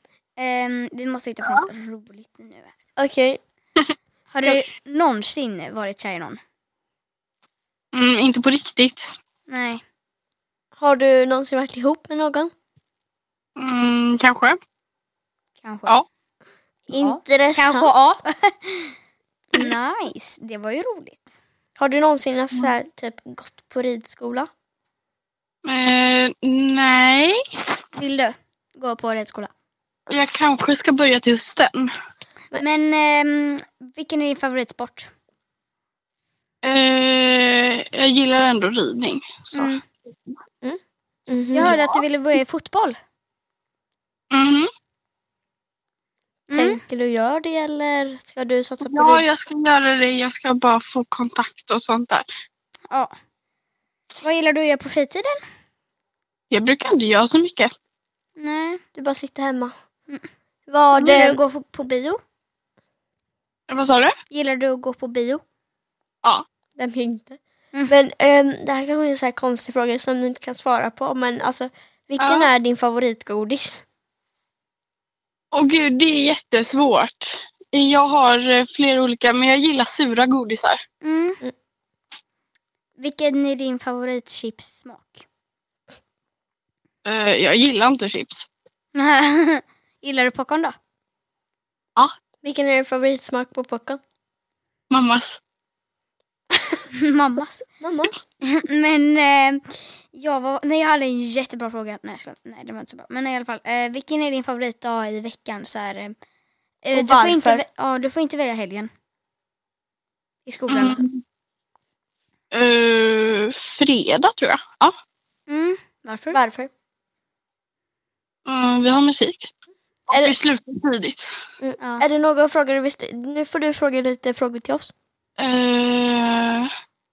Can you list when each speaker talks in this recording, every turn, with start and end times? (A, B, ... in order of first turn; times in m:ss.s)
0:00.4-0:02.7 A
0:03.0-0:03.4 B
0:04.3-0:06.4 A
0:07.9-0:09.1 C
0:09.5-0:09.8 A
0:10.8-0:12.5 B
0:13.6-0:14.6 C
0:15.6-0:15.9 A
0:16.9-0:17.9 B
0:17.0-0:18.9 A
0:19.5-0:21.3 A
0:21.8-0:24.5 B
0:25.6-0:27.4 C
0:28.0-0:29.5 A
0:30.1-0:31.9 C
0:32.6-0:35.1 A
0:36.6-0:40.3 C
0:39.5-0:39.8 A
0:40.6-0:41.8 B
0:41.5-0:43.0 A
0:41.6-0:42.0 C
0:44.3-0:44.7 C
0:46.5-0:46.8 A
0:46.5-0:49.2 B
0:48.8-0:52.2 C
0:54.2-0:55.4 A
0:56.5-0:57.7 C
0:58.4-0:58.8 A
0:58.9-0:59.7 B
1:00.7-1:01.4 B
1:00.9-1:02.2 A
1:03.7-1:04.2 C
1:04.3-1:05.4 A
1:06.8-1:13.8 B
1:12.2-1:12.5 C
1:15.5-1:20.8 C
1:21.0-1:21.4 A
1:23.0-1:25.2 A
1:27.0-1:28.5 C
1:28.9-1:30.8 A
1:32.4-1:34.0 B
1:34.9-1:35.4 C
1:36.9-1:37.6 A
1:37.8-1:38.2 B
1:38.4-1:46.2 A
1:46.8-1:48.9 A
1:46.9-1:47.6 B
1:50.4-1:51.0 A
1:50.7-1:51.2 C
1:52.5-1:54.9 C
1:55.5-1:56.4 A
1:56.3-1:56.7 B
1:58.4-1:59.5 C
2:00.1-2:01.4 C
2:01.6-2:04.9 B
2:01.8-2:02.0 A
2:05.4-2:06.7 C